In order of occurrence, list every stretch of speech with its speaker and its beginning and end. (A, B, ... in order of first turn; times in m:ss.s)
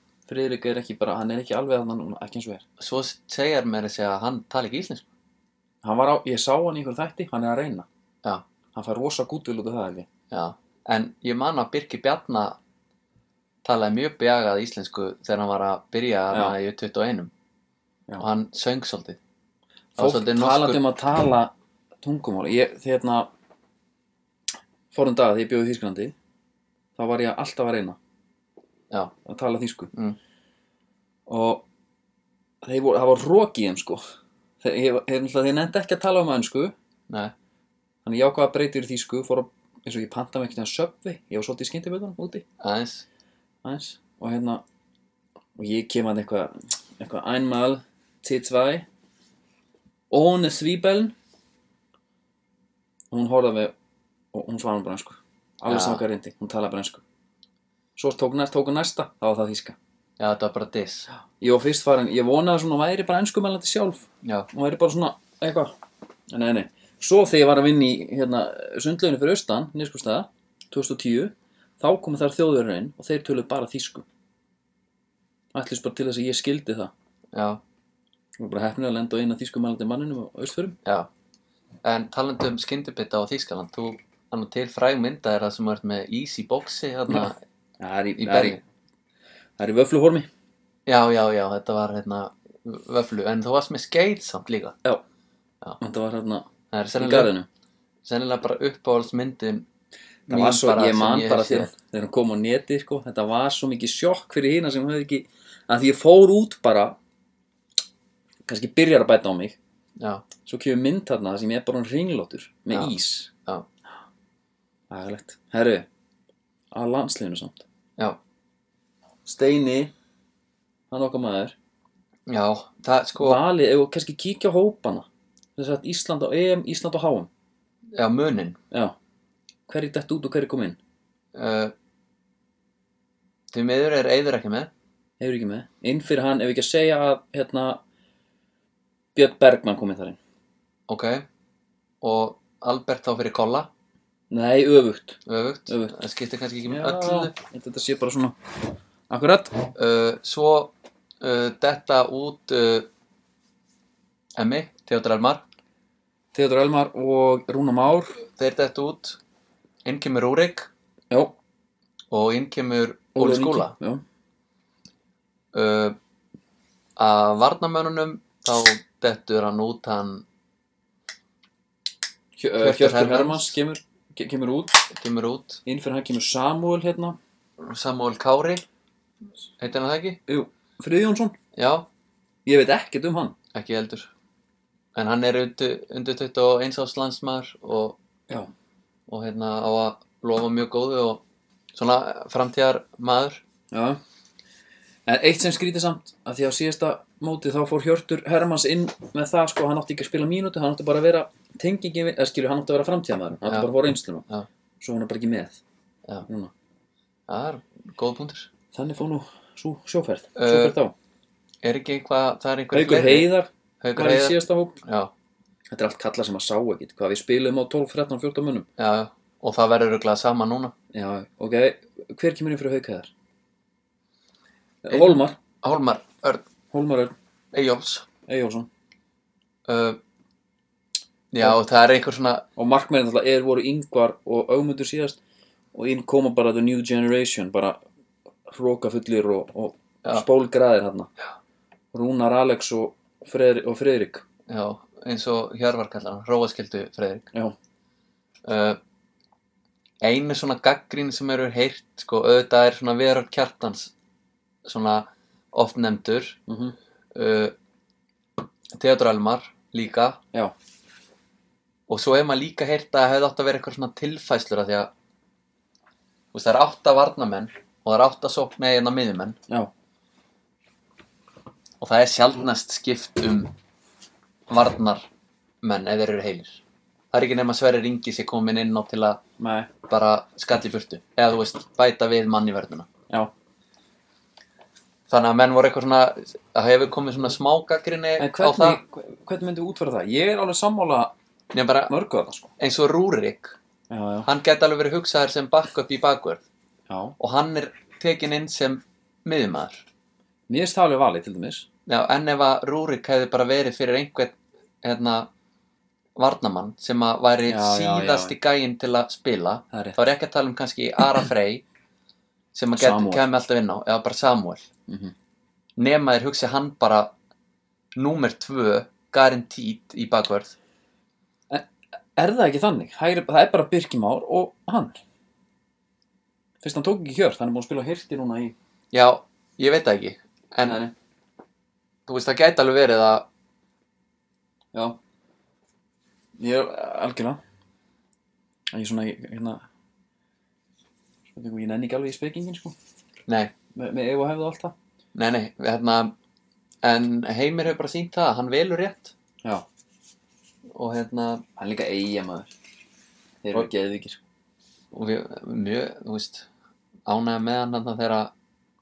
0:00.3-0:02.6 A
0:02.8-0:05.0 B
0:05.8-0:07.9 A
0:08.7-0:10.1 A
0:10.3-0:12.6 B
0:13.6-0:17.3 B
0:18.2-0:19.2 B
0:20.0-0:20.8 B
0:20.0-0:23.3 A
0:24.9-0:26.2 A
0:27.0-0:28.0 A
0:29.3-0:29.9 A
0:29.9-0:30.2 B
0:31.3-0:31.6 A
0:32.6-0:34.0 A
0:34.6-0:36.7 A
0:38.0-0:42.4 A
0:42.6-0:43.0 B
0:43.6-0:44.6 A
0:45.6-0:48.9 A
0:50.1-0:51.2 A
0:53.1-0:53.7 A
0:54.3-0:57.0 A
0:55.7-0:56.0 B
0:58.0-0:59.8 A
1:00.2-1:01.1 B
1:01.4-1:05.8 A
1:04.2-1:04.5 B
1:06.3-1:14.1 A
1:15.5-1:16.9 A
1:17.3-1:17.6 B
1:18.4-1:20.8 A
1:21.8-1:27.4 B
1:27.1-1:28.6 A
1:28.2-1:28.6 B
1:29.6-1:30.3 A
1:30.9-1:34.8 B
1:35.8-1:36.5 A
1:36.7-1:37.3 B
1:37.0-1:37.5 A
1:38.0-1:39.7 B
1:40.3-1:41.7 B
1:40.3-1:47.0 A
1:48.5-1:49.6 A
1:50.0-1:50.2 B
1:50.5-1:53.3 A
1:52.7-1:53.7 B
1:54.9-1:55.9 A
1:56.7-1:57.6 A
1:59.2-1:59.9 A
2:00.9-2:01.6 A
2:02.3-2:03.4 B
2:03.2-2:07.3 A
2:07.9-2:08.6 B
2:08.7-2:09.0 A
2:09.7-2:10.8 A
2:11.4-2:11.7 B
2:13.5-2:14.7 B
2:15.2-2:17.8 A
2:19.2-2:20.2 A
2:20.9-2:21.2 B
2:22.0-2:23.7 B
2:24.3-2:26.0 A
2:25.3-2:27.4 B
2:26.7-2:28.4 A
2:29.1-2:29.7 A
2:29.8-2:32.9 B
2:34.4-2:35.4 B
2:36.3-2:38.2 A
2:38.4-2:39.2 B
2:39.8-2:40.7 B
2:41.1-2:41.4 A
2:42.1-2:43.8 B
2:43.2-2:44.0 A
2:45.5-2:46.0 B
2:47.0-2:50.2 B
2:52.4-2:54.8 A
2:52.6-2:53.6 B
2:54.9-2:55.6 B
2:55.6-2:57.2 A
2:57.6-2:58.6 B
2:59.6-3:00.2 B
3:00.3-3:01.4 A
3:01.6-3:01.9 B
3:02.5-3:03.4 A
3:03.5-3:04.1 B
3:05.0-3:08.0 B
3:09.1-3:11.2 B
3:11.7-3:13.4 B
3:13.7-3:14.0 A
3:15.1-3:24.2 A
3:23.5-3:23.7 B
3:24.8-3:25.6 A
3:26.3-3:26.5 A
3:27.3-3:28.5 B
3:28.7-3:30.9 A
3:30.4-3:30.8 B
3:31.6-3:35.1 B
3:32.7-3:34.8 A
3:35.7-3:38.7 A
3:38.8-3:40.7 B
3:40.9-3:43.1 A
3:44.8-3:45.4 A
3:44.9-3:46.4 B
3:46.7-3:47.1 A
3:47.5-3:48.1 B
3:48.3-3:48.7 A
3:49.7-3:50.0 B
3:51.3-3:52.5 B
3:52.6-3:55.2 A
3:55.7-3:57.8 A
3:58.5-4:01.1 A
4:01.9-4:04.2 A
4:04.5-4:07.3 B
4:08.4-4:08.8 B
4:10.0-4:13.9 B
4:14.6-4:16.4 B
4:16.5-4:16.8 A
4:17.1-4:17.6 B
4:18.7-4:20.2 B
4:21.9-4:24.9 B
4:26.3-4:29.4 B
4:31.8-4:33.5 B
4:34.5-4:35.1 B
4:35.6-4:36.6 B
4:37.1-4:39.2 B
4:39.4-4:39.7 A
4:39.9-4:42.9 B
4:45.1-4:48.8 B
4:48.2-4:51.1 A
4:51.5-4:51.9 B
4:51.9-4:52.5 A
4:52.6-4:53.6 B
4:53.9-4:54.3 A
4:54.2-4:56.4 B
4:56.9-4:57.2 A
4:57.2-4:59.8 B
5:00.5-5:01.7 A
5:01.9-5:05.3 B
5:06.2-5:11.6 B
5:07.5-5:08.4 A
5:09.7-5:10.0 A
5:12.6-5:14.7 B
5:12.7-5:13.3 A
5:14.9-5:15.1 A
5:15.8-5:17.1 B
5:18.0-5:20.5 B
5:21.5-5:25.0 A
5:26.6-5:28.6 A
5:28.9-5:30.9 B
5:30.6-5:30.9 A
5:32.1-5:33.3 B
5:34.7-5:35.0 A
5:36.4-5:37.4 A
5:38.7-5:39.6 A
5:41.4-5:42.8 A
5:43.3-5:43.5 B
5:43.8-5:44.8 A
5:45.2-5:46.2 B
5:46.8-5:49.1 B
5:50.7-5:51.4 B
5:51.6-5:52.5 A
5:53.4-5:54.2 A
5:54.9-5:56.5 B
5:57.1-5:58.3 B